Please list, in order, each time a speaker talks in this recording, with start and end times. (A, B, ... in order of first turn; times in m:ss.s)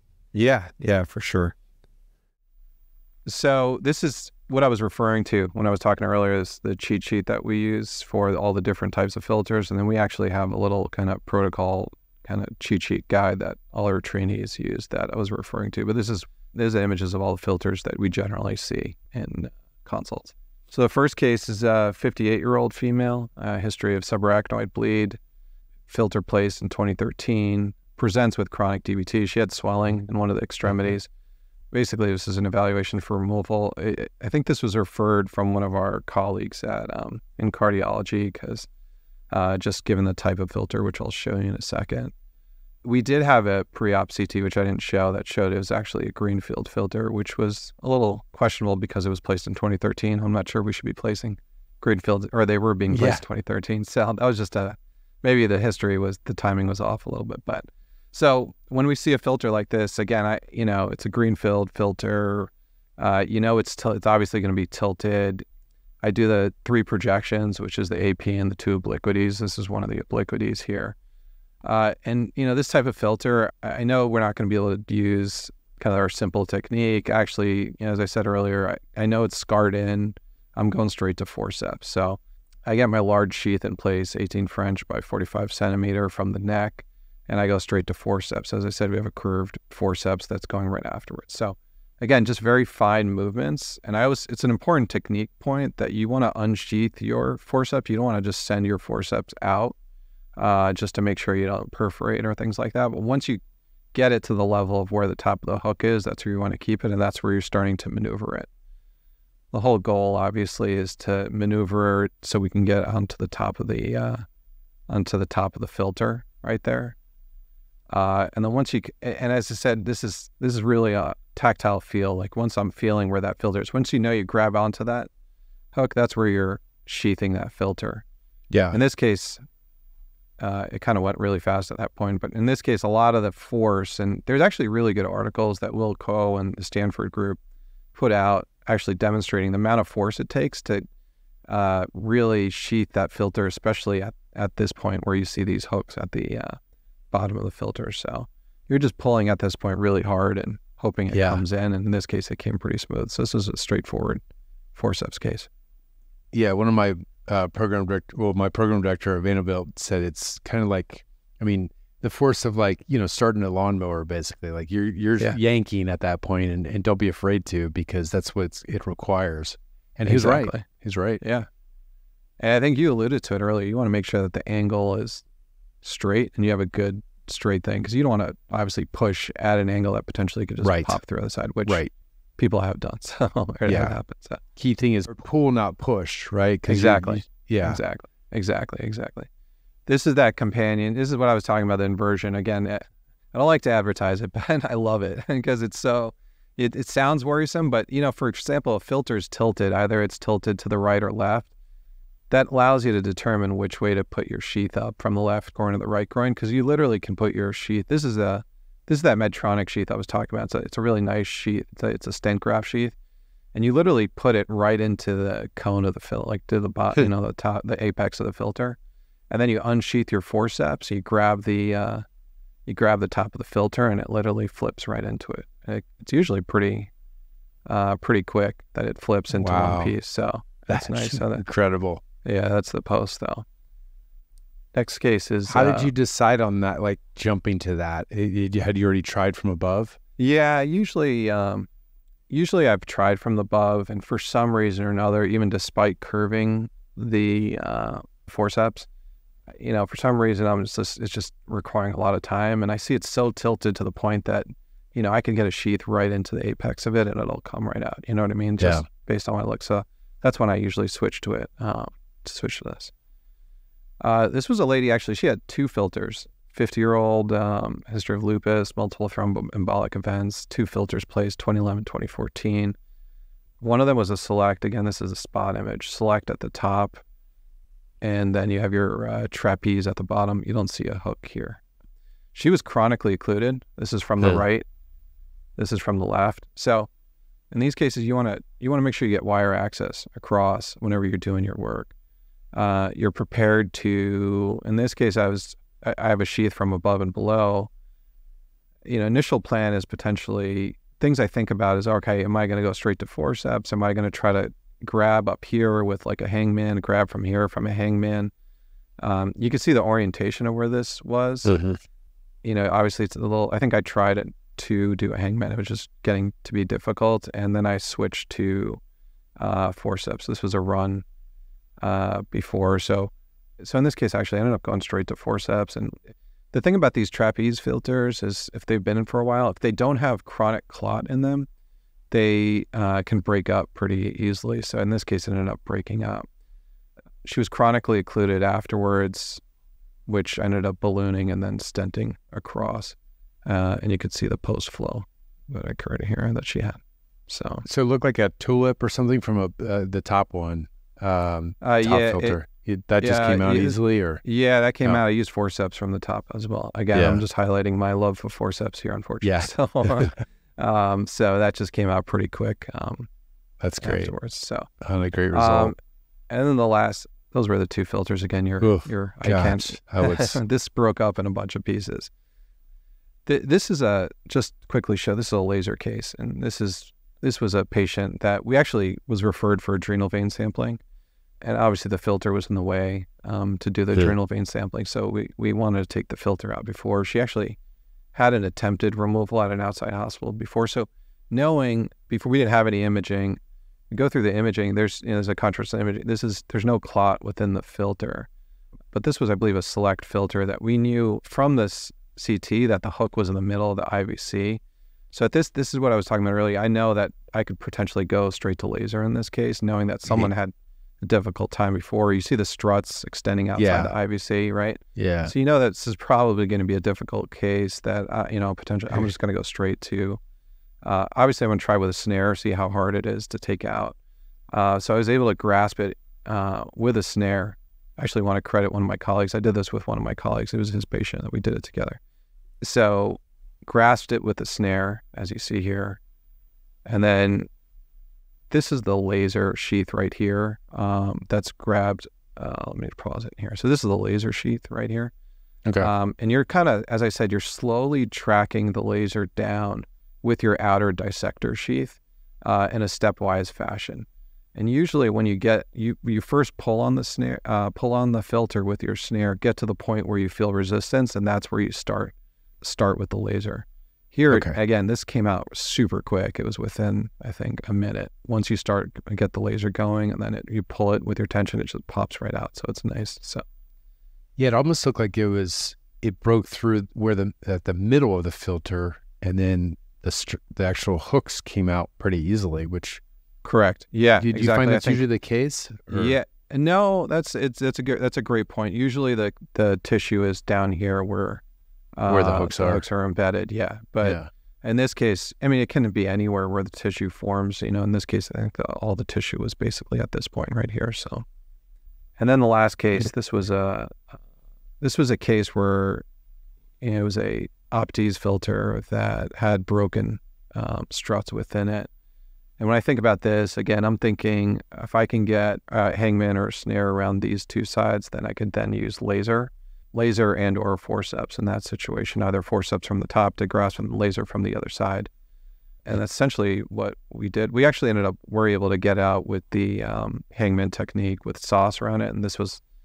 0:00.3-0:01.5 A
0:03.2-0:25.2 A
0:25.9-0:31.1 A
0:31.7-0:38.7 A
0:39.3-0:42.1 A
0:42.8-1:05.4 A
0:52.9-0:53.2 B
1:06.0-1:11.0 A
1:11.6-1:39.8 A
1:40.4-1:43.4 A
1:43.9-1:48.5 A
1:49.5-1:54.2 A
1:54.9-1:57.0 A
1:57.9-2:05.1 A
2:05.7-2:08.0 A
2:08.5-2:08.8 B
2:08.7-2:09.4 A
2:10.4-2:17.4 A
2:17.9-2:20.8 A
2:21.5-2:26.5 A
2:27.1-2:34.2 A
2:31.1-2:31.4 B
2:34.7-2:35.5 A
2:36.3-2:51.2 B
2:50.1-2:50.6 A
2:51.2-2:51.5 A
2:52.4-2:55.2 A
2:55.8-3:01.8 A
3:00.6-3:01.0 B
3:01.6-3:01.9 B
3:02.4-3:04.4 A
3:03.6-3:04.0 B
3:04.5-3:07.8 B
3:06.7-3:09.3 A
3:09.9-3:21.5 A
3:22.3-3:32.9 A
3:33.5-3:38.8 A
3:39.3-3:42.0 A
3:42.6-3:46.9 A
3:47.6-3:51.4 A
3:49.3-3:50.0 B
3:50.7-3:52.0 B
3:52.2-3:53.4 A
3:54.7-3:55.9 A
3:55.5-4:00.0 B
4:00.2-4:01.7 A
4:02.3-4:08.9 A
4:09.5-4:22.9 A
4:18.6-4:18.8 B
4:24.0-4:32.8 A
4:33.6-4:37.0 A
4:38.0-4:41.6 A
4:42.3-4:44.6 A
4:45.6-4:46.9 A
4:47.5-4:51.9 A
4:52.5-4:57.7 A
4:58.8-5:08.3 A
5:09.0-5:11.6 A
5:11.4-5:11.8 B
5:12.4-5:18.8 A
5:19.4-5:21.0 A
5:21.8-5:26.0 A
5:26.5-5:31.5 A
5:32.1-5:36.3 A
5:37.2-5:39.4 A
5:40.0-5:46.8 A
5:47.3-5:47.6 A
5:47.6-5:54.2 B
5:51.6-5:52.4 A
5:53.0-6:03.1 A
5:56.9-5:57.2 B
5:59.2-6:00.1 B
6:03.6-6:04.1 B
6:03.8-6:04.7 A
6:04.8-6:05.7 B
6:05.3-6:05.7 A
6:06.3-6:12.1 A
6:08.6-6:10.4 B
6:13.2-6:20.8 A
6:21.4-6:27.6 A
6:28.1-6:33.4 A
6:33.9-6:38.3 A
6:38.9-6:44.6 A
6:45.1-7:00.2 A
6:50.0-6:50.3 B
6:53.6-6:53.9 B
6:55.0-6:55.3 B
7:00.8-7:04.0 A
7:04.5-7:12.0 A
7:12.6-7:16.0 A
7:16.8-7:17.5 A
7:18.5-7:25.1 A
7:25.8-7:53.4 A
7:44.3-7:44.6 B
7:54.4-8:03.0 B
8:03.4-8:05.0 A
8:04.2-8:06.2 B
8:05.9-8:11.4 A
8:12.0-8:21.2 A
8:12.0-8:12.8 B
8:14.0-8:14.3 B
8:22.2-8:24.0 A
8:24.8-8:26.0 A
8:26.8-8:31.9 A
8:32.6-8:45.1 A
8:45.8-8:52.6 A